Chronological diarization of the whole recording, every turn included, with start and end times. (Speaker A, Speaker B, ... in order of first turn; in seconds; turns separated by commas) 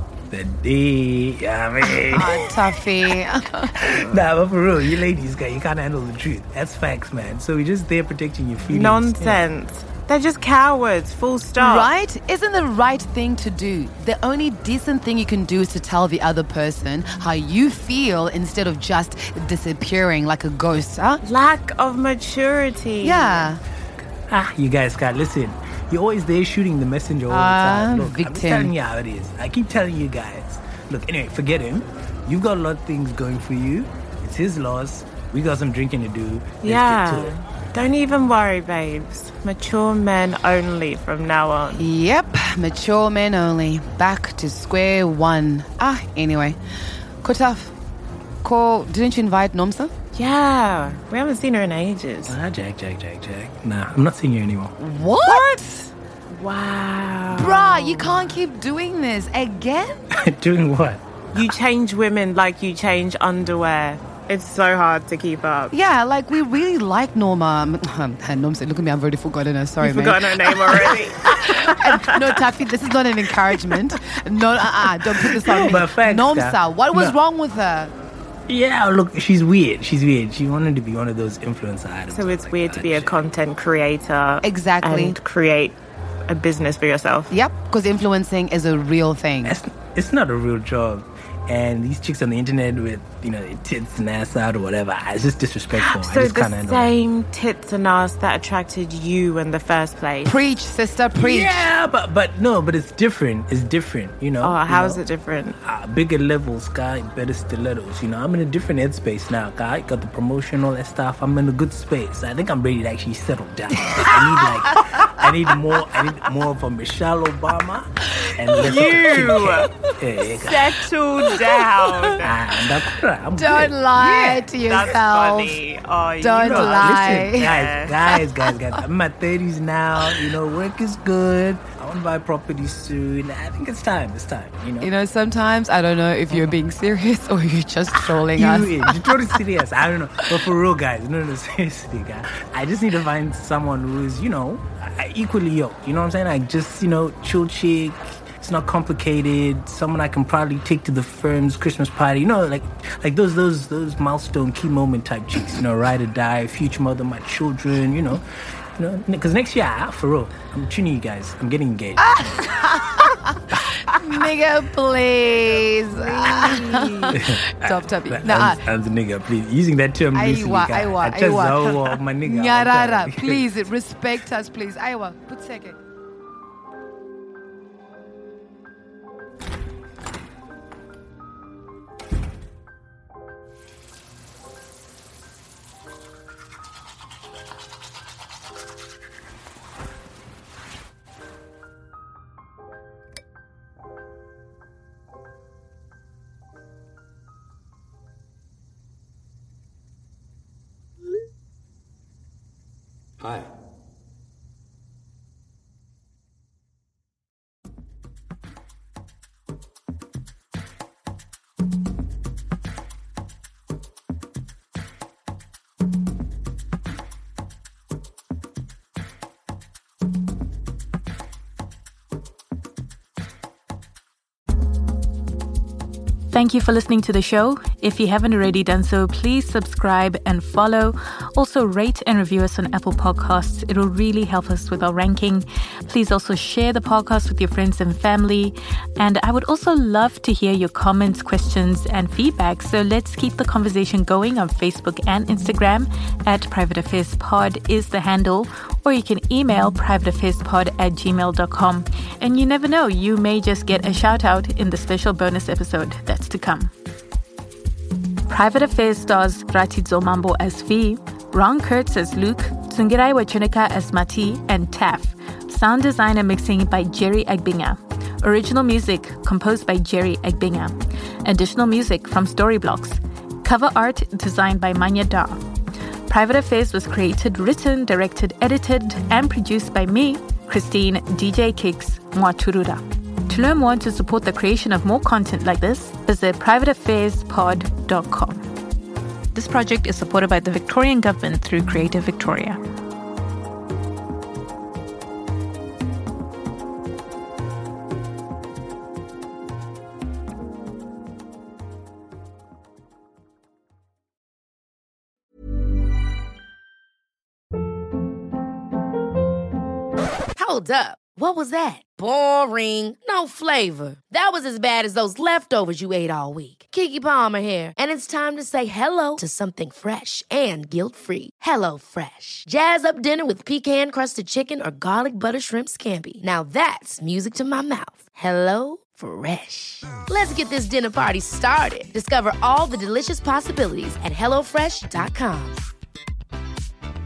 Speaker A: 0.3-2.8, Speaker B: 2.0-4.1, Speaker A: 3.8-9.4, Speaker C: 8.7-11.9, Speaker B: 11.6-21.2, Speaker C: 21.2-23.5, Speaker B: 23.0-23.6, Speaker A: 24.3-37.4, Speaker B: 27.3-28.7, Speaker C: 36.6-41.8, Speaker B: 41.7-46.6, Speaker B: 47.2-47.8, Speaker B: 48.4-49.9, Speaker C: 50.1-52.4, Speaker A: 52.3-54.8, Speaker B: 54.8-55.5, Speaker C: 55.2-58.3, Speaker B: 57.4-60.0, Speaker A: 60.1-61.0, Speaker C: 61.3-65.7, Speaker B: 65.7-77.9, Speaker C: 69.8-72.4, Speaker A: 75.3-77.1, Speaker A: 78.5-83.2, Speaker C: 82.1-87.3, Speaker B: 84.4-85.2, Speaker B: 87.3-89.6, Speaker A: 89.5-96.9, Speaker C: 95.8-100.4, Speaker B: 100.3-101.7, Speaker A: 101.2-105.0, Speaker C: 104.4-105.6, Speaker A: 105.6-120.7, Speaker C: 118.5-119.7, Speaker C: 120.3-122.3, Speaker B: 121.3-121.9, Speaker A: 122.2-123.8, Speaker B: 123.4-125.6, Speaker C: 124.2-128.1, Speaker B: 126.2-127.6, Speaker A: 126.5-134.9, Speaker B: 134.8-139.2, Speaker A: 138.2-158.2, Speaker A: 158.8-162.3, Speaker B: 162.0-168.6, Speaker C: 165.9-167.2, Speaker A: 166.3-173.5, Speaker B: 170.1-175.8, Speaker D: 226.3-256.7, Speaker D: 258.3-275.4, Speaker D: 276.1-288.4, Speaker D: 289.3-292.6, Speaker E: 310.4-335.6